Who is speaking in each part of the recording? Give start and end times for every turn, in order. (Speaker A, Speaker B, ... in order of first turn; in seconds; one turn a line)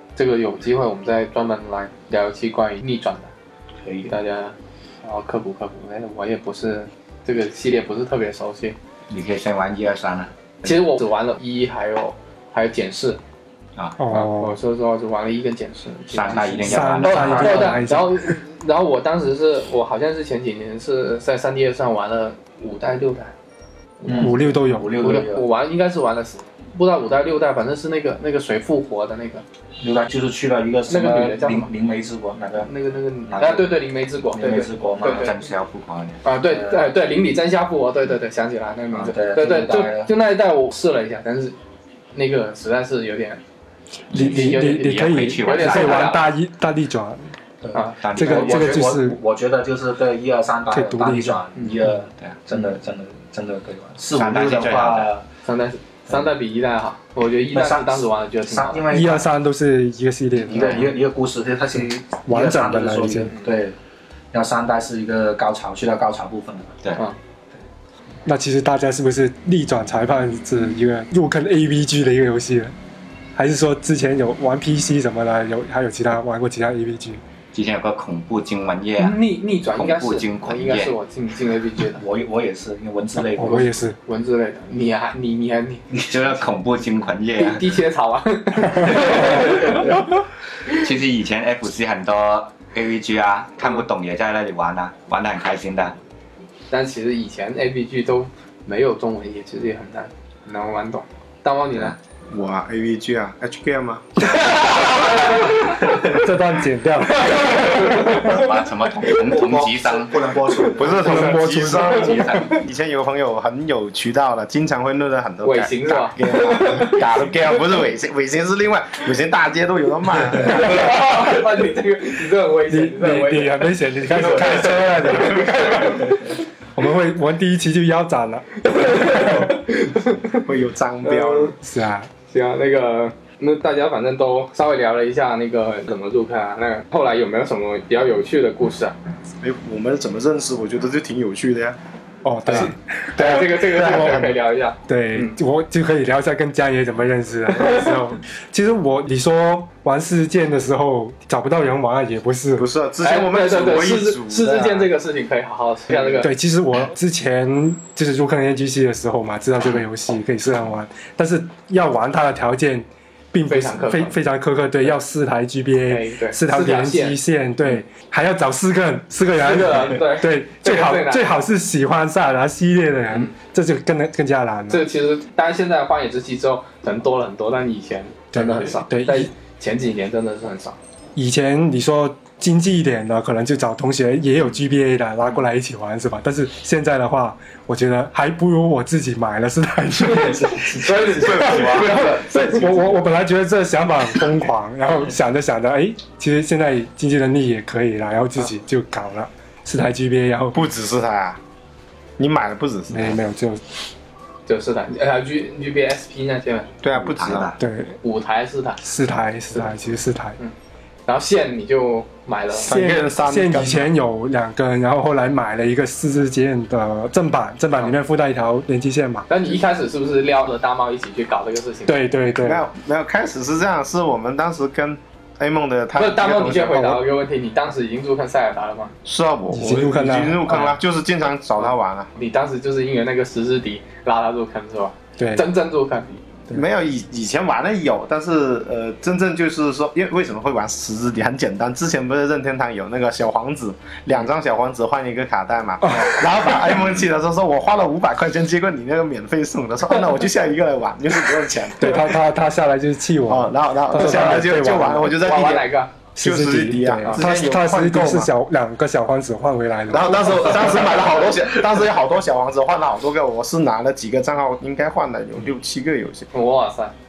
Speaker A: 0.1-3.3
Speaker B: 3.8-4.2
Speaker A: 4.0-8.8
Speaker C: 9.1-10.7
Speaker A: 10.6-13.2
Speaker D: 14.0-14.6
Speaker A: 14.1-23.3
Speaker C: 16.1-17.8
Speaker B: 16.2-17.8
Speaker D: 16.6-18.3
Speaker A: 24.0-24.4
Speaker B: 24.0-25.4
Speaker D: 24.1-25.1
Speaker A: 25.0-29.4
Speaker B: 29.8-32.7
Speaker A: 30.9-31.7
Speaker A: 32.6-35.3
Speaker B: 33.3-33.8
Speaker B: 34.3-35.3
Speaker C: 35.0-36.2
Speaker A: 36.2-41.5
Speaker B: 36.5-36.9
Speaker B: 38.9-40.1
Speaker A: 42.1-43.4
Speaker C: 44.1-46.1
Speaker D: 44.1-47.2
Speaker A: 44.2-46.3
Speaker B: 47.6-55.2
Speaker A: 47.7-48.7
Speaker C: 48.0-48.4
Speaker D: 48.1-49.2
Speaker D: 50.7-51.4
Speaker C: 54.1-55.1
Speaker A: 55.4-58.8
Speaker B: 57.5-59.3
Speaker D: 58.9-60.8
Speaker B: 60.4-63.8
Speaker A: 60.5-60.9
Speaker D: 62.2-63.3
Speaker A: 63.3-63.5
Speaker B: 64.3-66.7
Speaker D: 68.2-72.7
Speaker D: 73.3-77.2
Speaker C: 77.5-79.2
Speaker A: 79.0-82.0
Speaker C: 79.7-80.9
Speaker B: 82.0-83.8
Speaker D: 83.4-84.0
Speaker A: 84.0-85.8
Speaker B: 85.9-86.3
Speaker C: 86.1-87.6
Speaker A: 87.4-90.0
Speaker C: 90.7-96.0
Speaker A: 96.7-101.9
Speaker E: 102.3-104.4
Speaker D: 104.3-108.1
Speaker A: 104.5-105.7
Speaker A: 107.1-108.4
Speaker C: 107.4-110.3
Speaker B: 109.1-111.3
Speaker E: 110.7-121.2
Speaker D: 110.9-112.2
Speaker C: 111.5-112.6
Speaker A: 112.2-112.6
Speaker A: 115.4-117.0
Speaker A: 120.4-126.3
Speaker D: 122.7-129.4
Speaker A: 128.6-130.4
Speaker E: 130.4-131.5
Speaker A: 131.0-131.5
Speaker D: 131.6-132.1
Speaker A: 132.3-138.9
Speaker E: 139.4-141.8
Speaker D: 142.2-144.2
Speaker A: 142.5-145.3
Speaker E: 143.2-144.3
Speaker D: 144.9-152.7
Speaker A: 147.6-147.9
Speaker E: 152.6-154.9
Speaker A: 153.0-156.3
Speaker E: 155.9-156.2
Speaker D: 156.2-174.8
Speaker A: 163.5-164.2
Speaker A: 165.8-167.8
Speaker A: 169.4-171.4
Speaker A: 174.7-180.8
Speaker D: 178.3-179.3
Speaker D: 181.2-200.6
Speaker A: 190.2-192.6
Speaker B: 190.5-191.1
Speaker E: 191.0-193.0
Speaker E: 200.5-201.4
Speaker E: 202.2-203.2
Speaker D: 202.9-203.6
Speaker A: 204.4-206.7
Speaker E: 206.8-207.5
Speaker C: 206.9-207.7
Speaker D: 207.6-207.9
Speaker A: 208.0-208.8
Speaker D: 208.8-210.4
Speaker A: 211.1-212.7
Speaker D: 212.6-219.3
Speaker E: 212.6-213.9
Speaker A: 219.3-222.0
Speaker D: 221.9-222.6
Speaker E: 222.3-227.0
Speaker A: 225.9-228.9
Speaker E: 229.0-232.1
Speaker D: 229.5-230.8
Speaker A: 232.2-236.2
Speaker D: 235.2-235.5
Speaker E: 236.5-252.2
Speaker D: 245.8-246.2
Speaker D: 251.8-255.2
Speaker E: 253.3-255.7
Speaker A: 255.2-255.9
Speaker D: 256.1-260.6
Speaker E: 256.2-258.3
Speaker E: 259.9-266.3
Speaker A: 266.3-266.9